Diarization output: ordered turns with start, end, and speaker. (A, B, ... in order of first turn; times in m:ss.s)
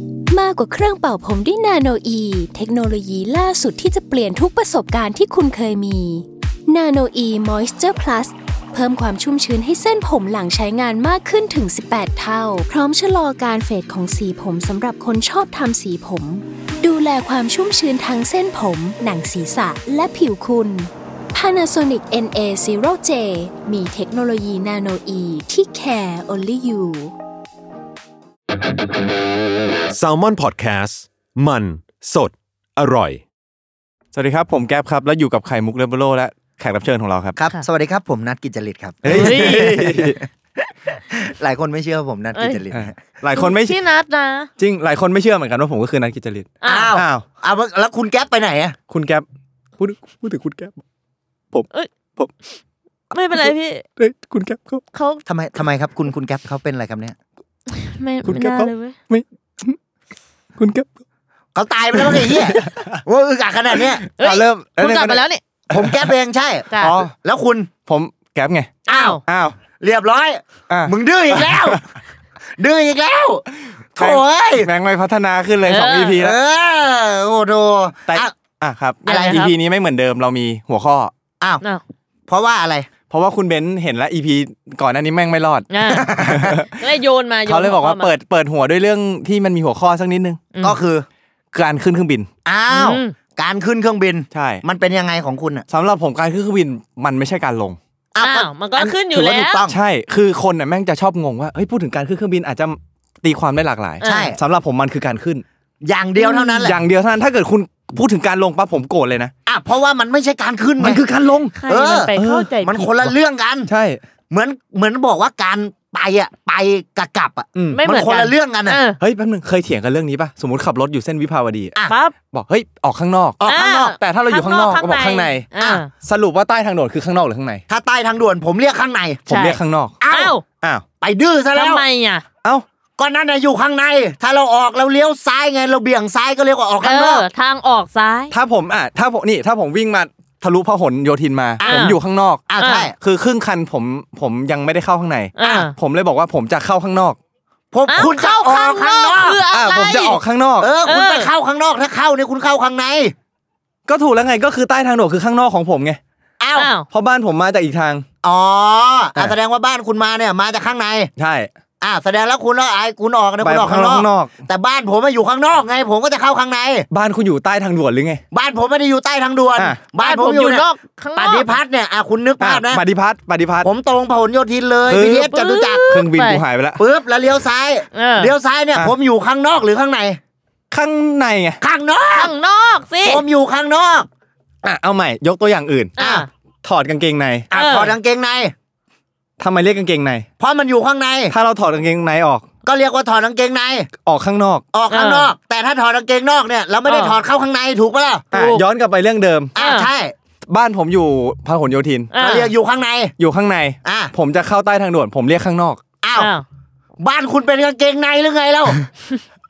0:00.3-0:27.1 A
0:29.9-0:33.2 B
0:34.1-0:37.4 C
0:37.4-0:40.3 D
0:39.0-0:40.2 C
0:39.1-0:39.7 E
0:41.1-0:43.0 D
0:42.4-0:42.6 E
0:42.7-0:43.8 C
0:43.3-0:44.5 E
0:44.6-0:47.2 C
0:46.6-0:47.0 E
0:46.6-0:48.8 D
0:48.9-0:49.2 C
0:49.8-0:50.8 C
0:51.5-0:52.3 C
0:53.1-0:53.8 E
0:54.0-0:54.8 C
0:54.9-0:55.2 E
0:55.2-0:57.2 D
0:57.7-0:59.0 E
0:58.2-0:59.8 C
1:00.6-1:00.9 C
1:01.5-1:04.1 D
1:02.0-1:03.0 C
1:04.2-1:06.1 C
1:04.2-1:05.4 E
1:05.7-1:07.7 D
1:06.7-1:07.0 E
1:06.8-1:07.1 C
1:07.9-1:09.6 C
1:08.9-1:09.2 E
1:08.9-1:09.2 D
1:09.8-1:11.8 D
1:10.7-1:11.8 C
1:12.6-1:13.4 D
1:14.0-1:14.7 D
1:14.0-1:16.4 C
1:15.6-1:16.2 E
1:16.2-1:18.3 D
1:18.1-1:21.1 C
1:19.1-1:19.6 E
1:19.1-1:19.4 D
1:22.3-1:22.9 D
1:23.1-1:26.7 C
1:25.7-1:26.2 E
1:25.9-1:26.6 D
1:26.7-1:28.2 E
1:27.5-1:30.4 C
1:30.5-1:30.8 E
1:30.6-1:31.1 D
1:31.5-1:32.3 C
1:32.4-1:35.7 D
1:32.7-1:33.2 E
1:34.3-1:34.6 C
1:35.7-1:37.8 C
1:38.2-1:39.8 D
1:38.2-1:39.7 E
1:39.6-1:45.4 C
1:44.0-1:44.3 E
1:44.0-1:44.4 D
1:45.8-1:46.8 D
1:46.2-1:46.6 E
1:46.6-1:49.3 C
1:49.5-1:51.0 D
1:50.8-1:51.6 C
1:51.6-1:53.0 E
1:51.7-1:53.7 D
1:52.2-1:52.6 C
1:53.7-1:54.0 C
1:54.3-1:58.8 D
1:57.8-1:59.0 E
1:59.0-2:03.4 C
2:01.8-2:02.2 E
2:03.4-2:04.0 D
2:03.4-2:05.9 E
2:04.0-2:05.5 C
2:05.6-2:05.8 D
2:06.0-2:07.6 C
2:07.7-2:09.3 D
2:09.3-2:10.4 E
2:09.3-2:10.8 C
2:10.0-2:10.3 D
2:11.0-2:11.8 D
2:11.5-2:12.2 E
2:13.0-2:17.3 D
2:16.8-2:18.3 E
2:18.3-2:27.2 C
2:21.6-2:21.9 D
2:21.6-2:22.0 E
2:22.5-2:23.0 D
2:22.6-2:22.9 E
2:25.4-2:25.7 E
2:25.4-2:25.7 D
2:27.7-2:29.4 D
2:27.9-2:30.2 E
2:29.5-2:30.7 C
2:30.6-2:33.1 D
2:30.8-2:31.3 E
2:33.9-2:36.0 C
2:36.4-2:36.7 D
2:36.6-2:36.9 E
2:36.9-2:38.0 C
2:38.2-2:41.1 D
2:41.2-2:41.5 C
2:41.8-2:46.9 D
2:43.4-2:44.4 C
2:46.9-2:48.2 C
2:48.3-2:52.8 D
2:49.6-2:49.8 C
2:49.9-2:51.6 E
2:52.4-2:53.7 C
2:53.6-2:55.9 D
2:54.9-2:55.3 C
2:55.3-2:56.4 E
2:55.9-2:56.8 C
2:56.8-3:00.2 D
2:57.9-2:58.3 E
3:00.7-3:01.6 C
3:01.6-3:02.3 D
3:02.1-3:03.2 E
3:03.0-3:04.1 D
3:04.6-3:06.0 C
3:06.0-3:06.3 E
3:06.0-3:06.3 D
3:06.6-3:07.5 C
3:07.5-3:08.5 D
3:07.5-3:08.0 E
3:09.4-3:10.3 C
3:10.4-3:11.4 D
3:11.3-3:12.4 C
3:12.6-3:13.9 D
3:14.0-3:14.6 C
3:14.7-3:18.3 D
3:14.9-3:15.3 E
3:16.8-3:17.2 E
3:18.3-3:18.6 E
3:18.3-3:19.5 C
3:19.6-3:20.1 D
3:19.6-3:19.9 E
3:20.5-3:22.2 C
3:22.1-3:22.5 E
3:22.2-3:23.1 D
3:23.2-3:25.8 C
3:23.8-3:24.1 D
3:26.0-3:26.3 D
3:26.1-3:26.4 E
3:27.0-3:28.8 D